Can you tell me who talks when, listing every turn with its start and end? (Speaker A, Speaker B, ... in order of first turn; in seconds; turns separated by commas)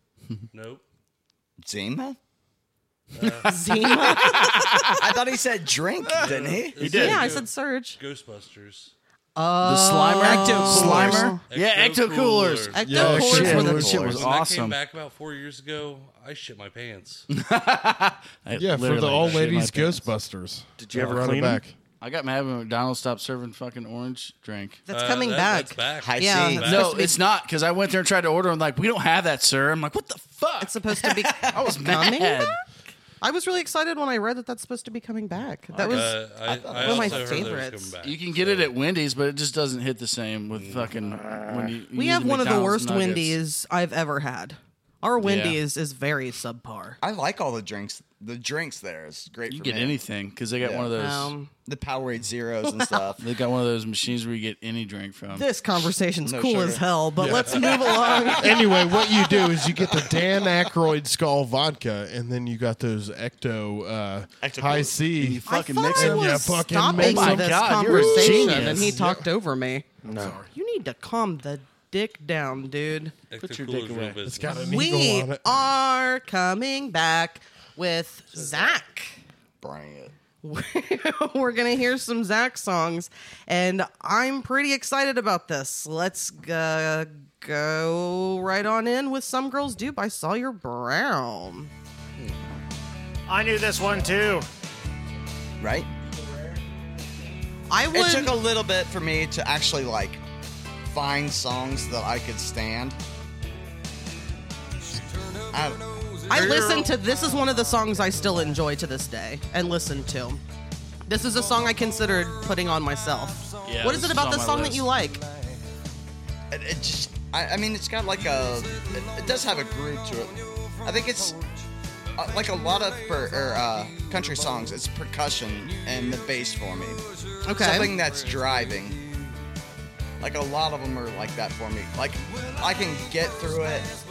Speaker A: 0.5-0.8, Speaker B: 1.6-2.2, Speaker A: 3.1-3.5, Speaker C: 3.4-5.0, Speaker D: 3.9-5.1, Speaker B: 5.0-7.1, Speaker D: 6.0-6.3, Speaker A: 6.1-8.9, Speaker E: 6.8-7.3, Speaker C: 6.9-8.0, Speaker C: 9.3-11.4, Speaker D: 9.6-14.8, Speaker A: 10.8-13.2, Speaker C: 12.7-14.2, Speaker F: 12.8-14.2, Speaker A: 14.0-17.3, Speaker D: 17.3-20.1, Speaker F: 18.5-21.7, Speaker E: 20.8-21.6, Speaker D: 22.0-24.9, Speaker C: 24.9-27.2, Speaker A: 24.9-27.0, Speaker B: 26.0-26.8, Speaker D: 26.6-30.7, Speaker C: 30.6-32.6, Speaker B: 31.3-31.6, Speaker D: 31.5-32.6, Speaker C: 33.2-37.9, Speaker E: 35.7-36.2, Speaker A: 35.8-38.7, Speaker B: 36.5-37.5, Speaker D: 38.0-43.4, Speaker A: 40.5-41.1, Speaker E: 41.1-41.8, Speaker C: 41.9-47.0, Speaker D: 45.2-45.6, Speaker B: 47.0-50.0, Speaker D: 49.5-51.3, Speaker B: 50.6-50.9, Speaker C: 50.9-51.5, Speaker B: 51.6-53.3, Speaker D: 53.2-55.5, Speaker C: 55.3-58.7, Speaker B: 56.2-56.9, Speaker F: 58.3-65.4, Speaker B: 64.4-65.0, Speaker D: 65.2-69.0, Speaker C: 65.5-69.9, Speaker F: 65.9-69.2, Speaker E: 70.0-70.4, Speaker D: 70.1-70.5, Speaker C: 70.5-73.1, Speaker A: 73.3-74.7, Speaker D: 73.4-74.2, Speaker F: 74.2-75.5, Speaker C: 74.5-79.2, Speaker A: 78.3-78.8, Speaker B: 79.6-80.1, Speaker C: 80.4-91.7, Speaker E: 93.3-94.5, Speaker B: 95.6-95.9, Speaker C: 97.7-98.3, Speaker B: 97.9-100.2, Speaker B: 100.9-103.0, Speaker B: 105.5-106.6, Speaker C: 106.3-110.4, Speaker C: 111.1-115.2, Speaker D: 113.7-114.9, Speaker B: 116.5-121.4, Speaker B: 122.2-127.0, Speaker C: 127.4-127.9, Speaker B: 127.6-129.0, Speaker B: 130.2-133.9